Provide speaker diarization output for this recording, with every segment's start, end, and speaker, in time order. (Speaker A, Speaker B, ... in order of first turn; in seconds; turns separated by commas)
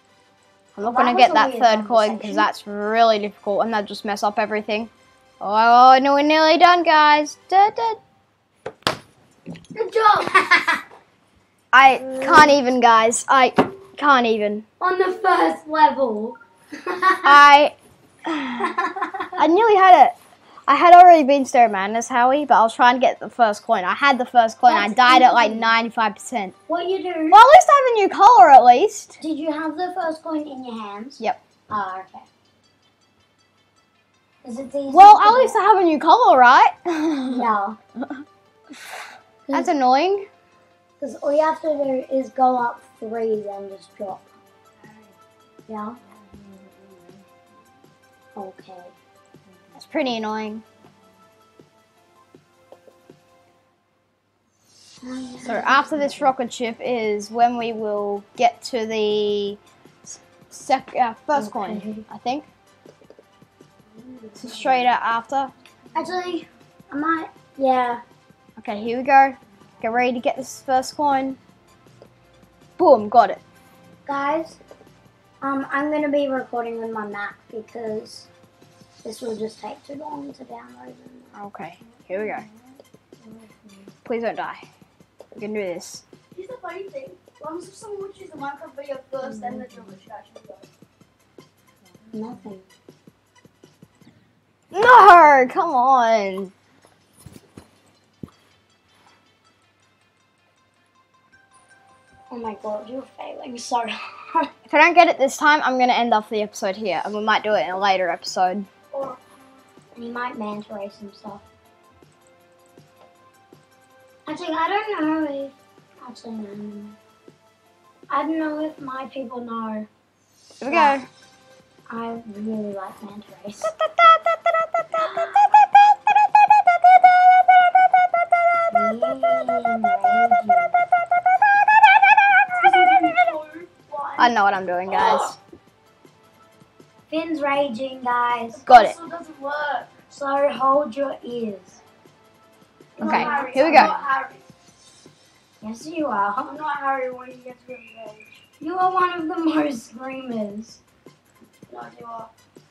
Speaker A: 0.7-8.0, Speaker B: 0.8-2.5, Speaker B: 9.7-10.8, Speaker A: 11.7-14.7, Speaker B: 12.1-12.5, Speaker B: 14.8-17.4, Speaker A: 17.2-18.8, Speaker B: 18.6-19.3, Speaker A: 19.3-20.1, Speaker A: 20.7-26.5, Speaker B: 24.7-25.7, Speaker B: 26.7-27.4, Speaker A: 27.3-29.2, Speaker B: 29.2-32.3, Speaker B: 34.4-35.6, Speaker A: 34.9-37.5, Speaker B: 37.3-37.8, Speaker A: 39.5-40.3, Speaker B: 41.0-44.3, Speaker B: 45.7-46.0, Speaker B: 48.3-49.0, Speaker A: 49.7-50.6, Speaker B: 55.0-56.2, Speaker A: 55.4-62.5, Speaker B: 61.3-62.0, Speaker B: 64.3-64.9, Speaker A: 64.4-65.5, Speaker B: 65.9-68.0, Speaker A: 68.6-71.4, Speaker A: 72.8-73.4, Speaker B: 74.0-74.6, Speaker B: 75.4-78.3, Speaker B: 79.0-81.4, Speaker A: 81.3-82.5, Speaker B: 81.9-82.4, Speaker B: 83.2-83.9, Speaker A: 84.0-84.6, Speaker A: 85.3-86.0, Speaker C: 86.3-90.7, Speaker B: 89.2-89.8, Speaker B: 92.1-92.7, Speaker A: 94.7-96.5, Speaker B: 102.3-104.5, Speaker A: 104.7-108.7, Speaker C: 108.9-109.2, Speaker B: 109.9-111.4, Speaker B: 114.2-117.0, Speaker B: 118.1-119.9, Speaker A: 120.6-121.1, Speaker B: 120.6-121.0, Speaker B: 121.9-123.7, Speaker A: 123.7-125.7, Speaker B: 125.0-125.5, Speaker B: 128.7-130.8, Speaker C: 132.5-134.3, Speaker A: 134.2-135.4, Speaker C: 134.9-135.3, Speaker B: 137.1-138.6, Speaker C: 138.5-140.0, Speaker A: 138.7-138.9, Speaker B: 140.1-141.8, Speaker B: 142.9-144.1, Speaker C: 143.0-144.4, Speaker A: 143.0-144.0, Speaker B: 145.6-146.6, Speaker C: 146.5-148.4, Speaker B: 148.6-150.8, Speaker C: 151.7-152.3